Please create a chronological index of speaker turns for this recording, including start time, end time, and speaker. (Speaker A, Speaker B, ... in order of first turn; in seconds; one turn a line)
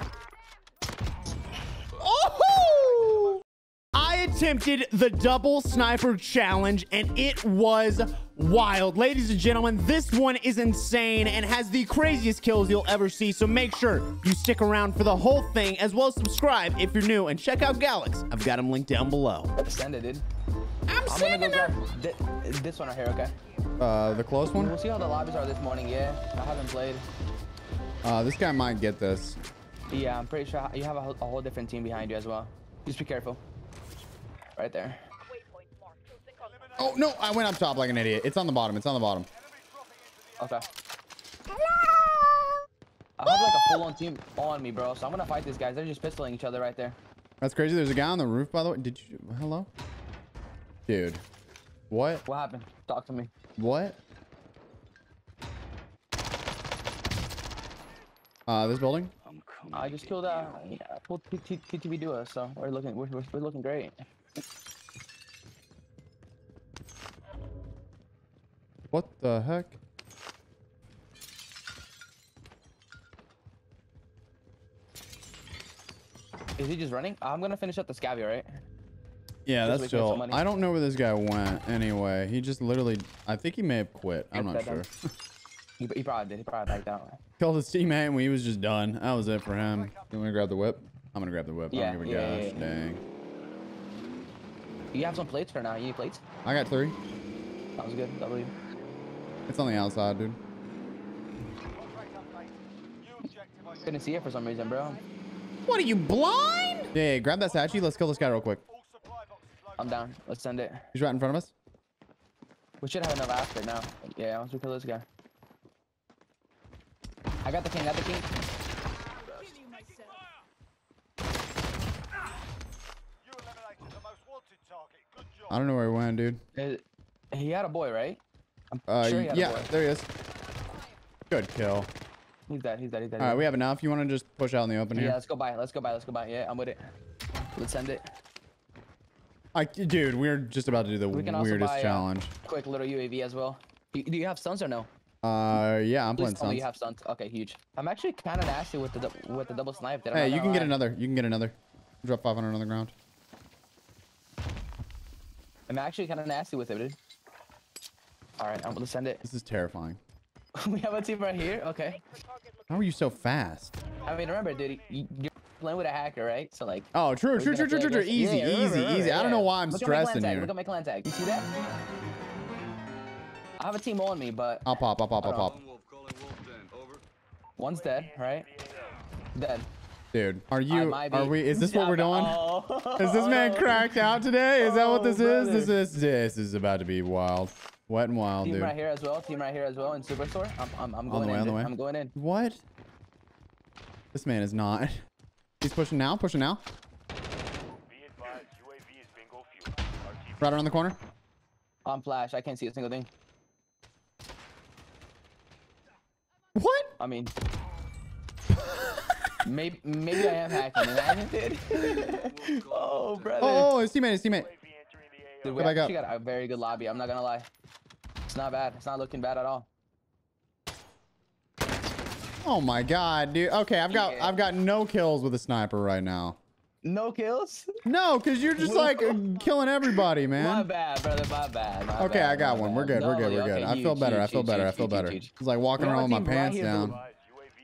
Speaker A: 2.0-3.4
Speaker A: 3.9-19.5
Speaker B: 19.6-20.2
Speaker A: 20.9-21.7
Speaker B: 21.1-23.3
Speaker C: 23.8-24.7
Speaker B: 24.5-27.0
Speaker C: 28.0-29.4
Speaker B: 29.9-33.4
Speaker B: 34.5-35.0
Speaker C: 36.8-39.3
Speaker B: 40.4-40.7
Speaker B: 43.2-47.0
Speaker C: 47.4-49.7
Speaker C: 50.9-51.2
Speaker C: 51.9-52.2
Speaker B: 52.2-53.3
Speaker C: 53.6-54.0
Speaker C: 58.5-59.1
Speaker B: 59.7-63.9
Speaker C: 68.9-69.8
Speaker B: 76.6-78.6
Speaker C: 79.5-84.9
Speaker B: 79.6-80.4
Speaker B: 84.3-84.8
Speaker B: 85.8-87.2
Speaker C: 87.4-93.0
Speaker B: 91.7-92.7
Speaker B: 94.9-96.2
Speaker C: 96.4-96.9
Speaker B: 97.8-98.5
Speaker C: 99.5-100.4
Speaker B: 103.7-105.0
Speaker A: 105.7-106.9
Speaker C: 106.9-108.6
Speaker B: 109.8-110.9
Speaker C: 110.9-111.5
Speaker B: 112.8-115.0
Speaker B: 117.4-118.3
Speaker C: 125.5-126.4
Speaker B: 126.5-128.2
Speaker B: 128.7-129.7
Speaker C: 128.9-130.1
Speaker C: 131.3-131.9
Speaker B: 132.5-133.5
Speaker C: 133.2-135.2
Speaker B: 134.9-136.8
Speaker B: 137.6-138.1
Speaker C: 139.5-142.3
Speaker B: 141.1-144.9
Speaker C: 145.2-146.6
Speaker B: 146.2-150.8
Speaker C: 150.1-152.9
Speaker B: 155.7-157.0
Speaker B: 158.4-159.2
Speaker C: 159.2-160.0
Speaker B: 160.5-162.0
Speaker C: 162.7-163.7
Speaker B: 164.0-171.5
Speaker C: 166.9-170.5
Speaker B: 173.6-174.7
Speaker C: 174.6-175.6
Speaker B: 175.2-175.5
Speaker D: 175.4-177.0
Speaker B: 177.6-178.5
Speaker B: 179.3-179.7
Speaker C: 180.1-182.4
Speaker B: 180.7-183.9
Speaker C: 183.0-188.8
Speaker B: 184.6-185.7
Speaker B: 188.4-192.1
Speaker C: 191.1-192.6
Speaker C: 194.1-195.0
Speaker C: 195.6-196.6
Speaker C: 200.4-201.0
Speaker B: 201.8-203.1
Speaker C: 206.6-206.9
Speaker B: 207.0-207.3
Speaker B: 209.4-213.7
Speaker C: 210.8-211.1
Speaker D: 212.1-213.5
Speaker C: 213.4-214.5
Speaker B: 215.4-217.5
Speaker C: 215.6-215.9
Speaker B: 218.3-219.7
Speaker C: 222.4-226.4
Speaker B: 223.9-224.5
Speaker B: 226.8-227.7
Speaker C: 227.8-230.7
Speaker B: 228.6-229.2
Speaker B: 229.9-237.0
Speaker C: 232.0-237.0